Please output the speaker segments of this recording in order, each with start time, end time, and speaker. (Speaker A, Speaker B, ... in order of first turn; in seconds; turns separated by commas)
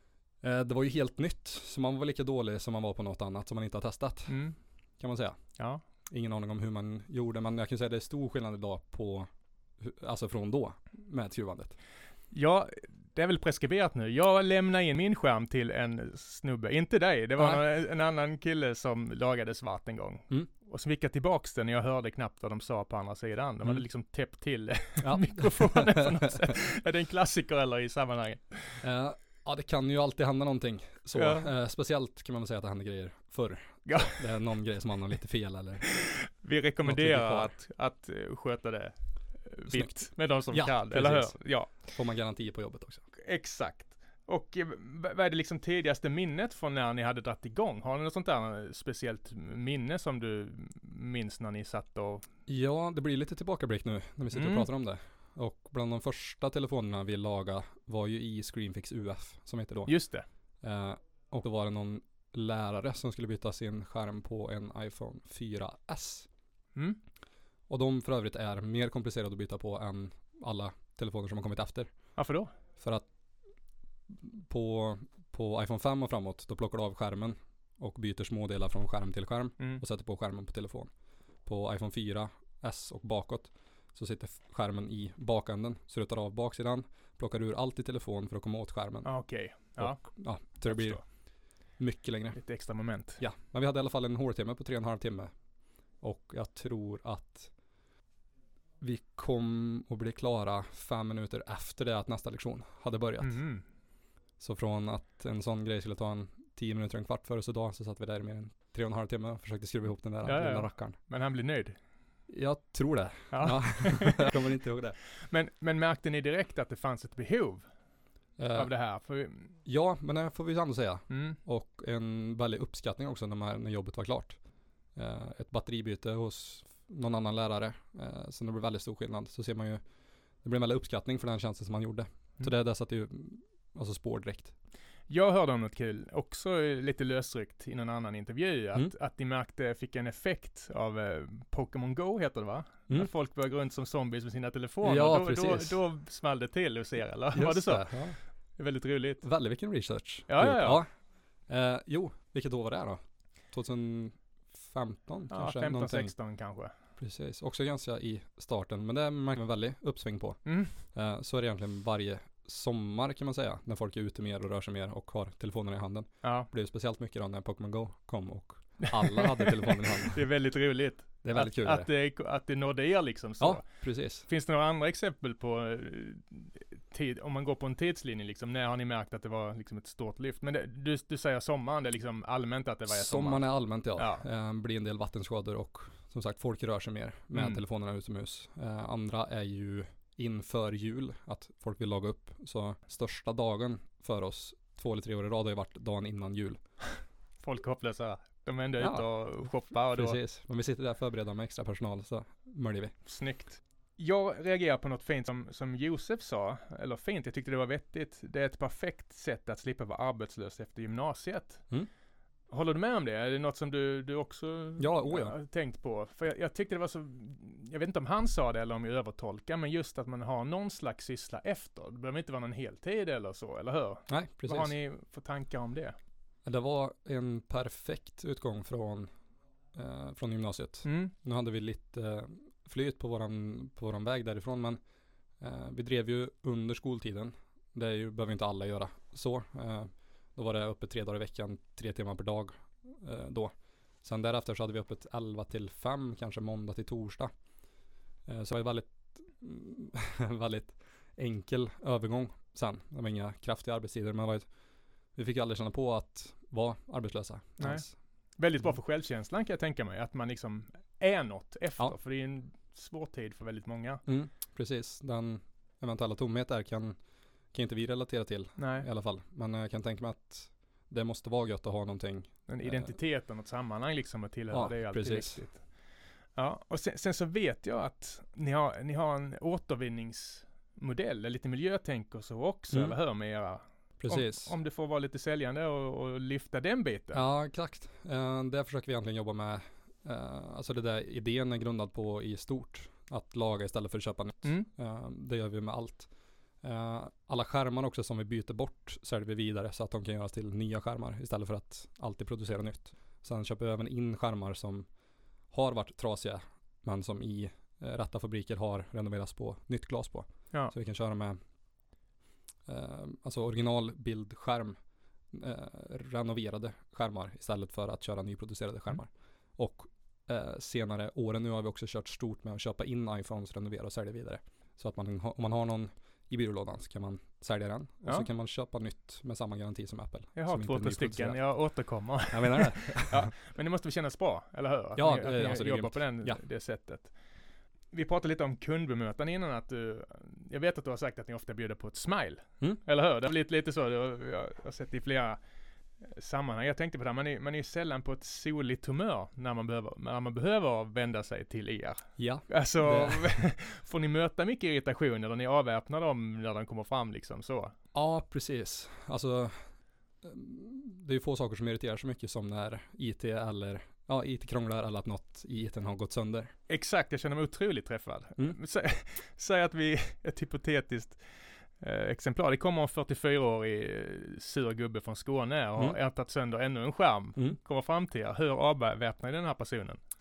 Speaker A: 0.4-11.8, Speaker B: 4.3-4.6, Speaker B: 5.6-5.8, Speaker B: 12.3-28.8, Speaker A: 17.4-17.6, Speaker A: 25.0-26.5, Speaker A: 28.8-36.0, Speaker B: 31.1-31.5, Speaker B: 33.9-34.4, Speaker B: 36.0-42.0, Speaker A: 36.9-37.5, Speaker A: 39.7-43.1, Speaker B: 43.2-52.3, Speaker A: 52.5-60.0, Speaker B: 54.3-54.7, Speaker B: 59.9-60.3, Speaker A: 60.6-66.3, Speaker A: 67.7-72.1, Speaker B: 72.2-72.5, Speaker A: 72.8-73.1, Speaker A: 74.1-80.9, Speaker A: 81.4-92.4, Speaker B: 89.0-91.0, Speaker B: 92.3-93.2, Speaker A: 93.2-95.4, Speaker A: 95.9-97.6, Speaker A: 98.8-103.5, Speaker B: 103.2-103.6, Speaker A: 104.4-111.0, Speaker B: 110.2-111.8, Speaker A: 112.3-115.0, Speaker B: 113.3-114.3, Speaker B: 115.2-117.7, Speaker A: 118.4-118.7, Speaker B: 118.5-119.5, Speaker A: 119.6-124.4, Speaker B: 121.1-121.4, Speaker A: 124.9-129.8, Speaker A: 130.4-134.5, Speaker B: 135.1-149.2, Speaker A: 144.8-145.8, Speaker A: 147.3-148.2, Speaker A: 149.2-156.1, Speaker B: 150.3-150.8, Speaker B: 155.3-156.7, Speaker A: 157.0-170.2, Speaker B: 160.4-160.8, Speaker B: 166.2-166.5, Speaker B: 169.0-173.7, Speaker A: 171.2-171.9, Speaker A: 173.4-174.3, Speaker B: 174.2-184.2, Speaker A: 182.9-196.6, Speaker B: 187.3-187.6, Speaker B: 197.4-200.2, Speaker A: 198.8-203.0, Speaker B: 203.1-211.7, Speaker B: 212.5-226.0, Speaker A: 214.8-215.4, Speaker A: 224.1-224.8, Speaker A: 226.4-229.1, Speaker A: 229.7-234.8, Speaker B: 230.8-231.1, Speaker A: 235.4-247.3, Speaker A: 248.3-254.5, Speaker A: 255.1-258.0, Speaker B: 257.6-264.0, Speaker A: 264.1-273.0, Speaker B: 268.6-268.9, Speaker B: 272.5-287.2, Speaker A: 274.5-275.5, Speaker A: 282.7-283.0, Speaker A: 284.0-284.5, Speaker A: 287.1-304.9, Speaker A: 305.5-311.4, Speaker A: 312.7-314.8, Speaker A: 315.3-333.3, Speaker B: 330.4-345.4, Speaker A: 335.0-336.4, Speaker B: 346.0-357.8, Speaker A: 352.2-353.5, Speaker A: 357.9-366.5, Speaker B: 366.7-380.0